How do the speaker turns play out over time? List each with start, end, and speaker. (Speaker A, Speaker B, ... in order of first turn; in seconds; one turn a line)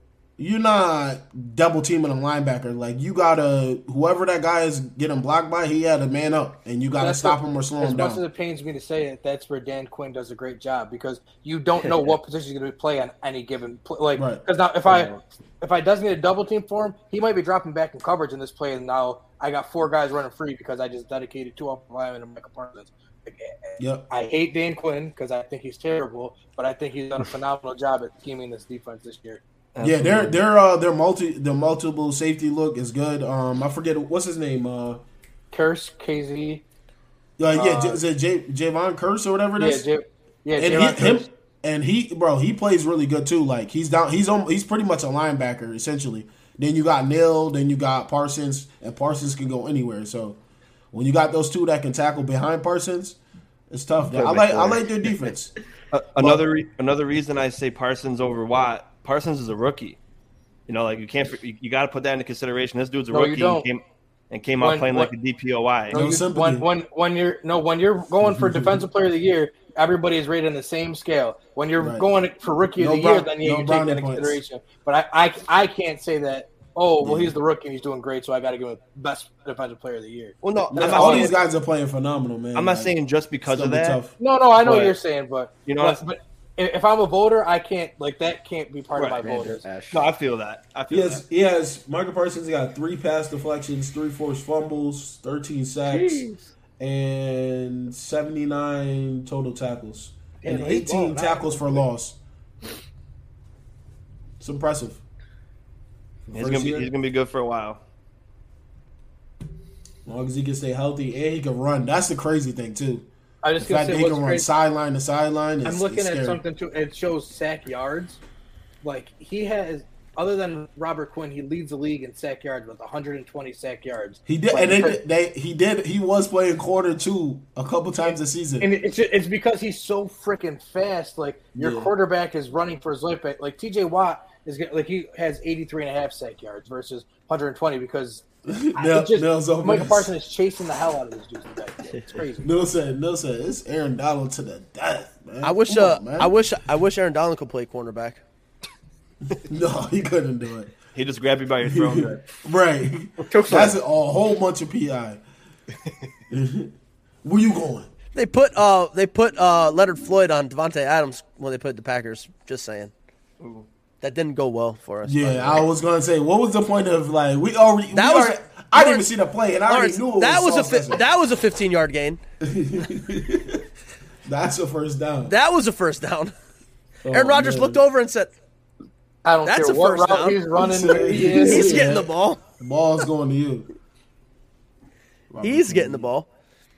Speaker A: 0.4-8.2
Speaker B: 7.0-29.4
Speaker A: 14.1-14.4
Speaker C: 14.9-15.2
Speaker A: 23.8-24.1
Speaker C: 29.7-30.4
Speaker A: 29.8-35.0
Speaker B: 35.5-36.6
Speaker A: 37.4-39.9
Speaker B: 37.5-38.0
Speaker B: 39.6-41.3
Speaker A: 40.5-50.4
Speaker A: 50.9-53.2
Speaker A: 53.7-55.5
Speaker D: 54.1-54.9
Speaker C: 55.9-60.0
Speaker A: 56.2-56.4
Speaker C: 60.7-66.0
Speaker B: 63.1-63.7
Speaker B: 64.6-65.1
Speaker A: 65.9-66.7
Speaker B: 65.9-81.3
Speaker A: 68.2-68.9
Speaker A: 71.8-72.0
Speaker A: 72.8-74.4
Speaker A: 77.0-77.3
Speaker C: 80.4-81.4
Speaker A: 80.7-84.1
Speaker C: 82.5-84.0
Speaker B: 84.2-89.6
Speaker C: 84.6-85.0
Speaker C: 85.7-86.0
Speaker C: 89.0-89.3
Speaker D: 89.2-90.1
Speaker C: 89.9-91.2
Speaker A: 90.9-96.2
Speaker D: 95.9-96.5
Speaker A: 96.8-102.2
Speaker B: 100.4-101.8
Speaker A: 104.4-105.0
Speaker A: 106.3-106.9
Speaker C: 106.3-107.8
Speaker A: 110.0-113.0
Speaker B: 113.4-114.5
Speaker A: 113.6-116.4
Speaker B: 115.6-118.2
Speaker B: 118.8-125.0
Speaker A: 124.3-128.7
Speaker B: 128.6-138.2
Speaker A: 131.6-131.9
Speaker A: 138.5-140.1
Speaker B: 138.8-142.5
Speaker A: 142.4-146.3
Speaker E: 145.4-148.2
Speaker A: 149.3-150.7
Speaker C: 150.9-152.2
Speaker A: 151.6-155.2
Speaker D: 153.3-153.8
Speaker A: 156.3-156.7
Speaker A: 157.2-157.9
Speaker E: 158.1-162.9
Speaker C: 163.4-163.7
Speaker E: 164.0-165.7
Speaker A: 165.0-171.0
Speaker E: 167.9-169.1
Speaker E: 169.7-172.2
Speaker A: 172.4-173.6
Speaker A: 174.2-175.3
Speaker E: 175.2-176.3
Speaker A: 177.0-177.8
Speaker E: 177.1-178.3
Speaker B: 179.2-181.9
Speaker E: 179.4-180.4
Speaker A: 180.5-183.7
Speaker E: 181.1-182.4
Speaker A: 185.3-186.1
Speaker E: 185.4-186.3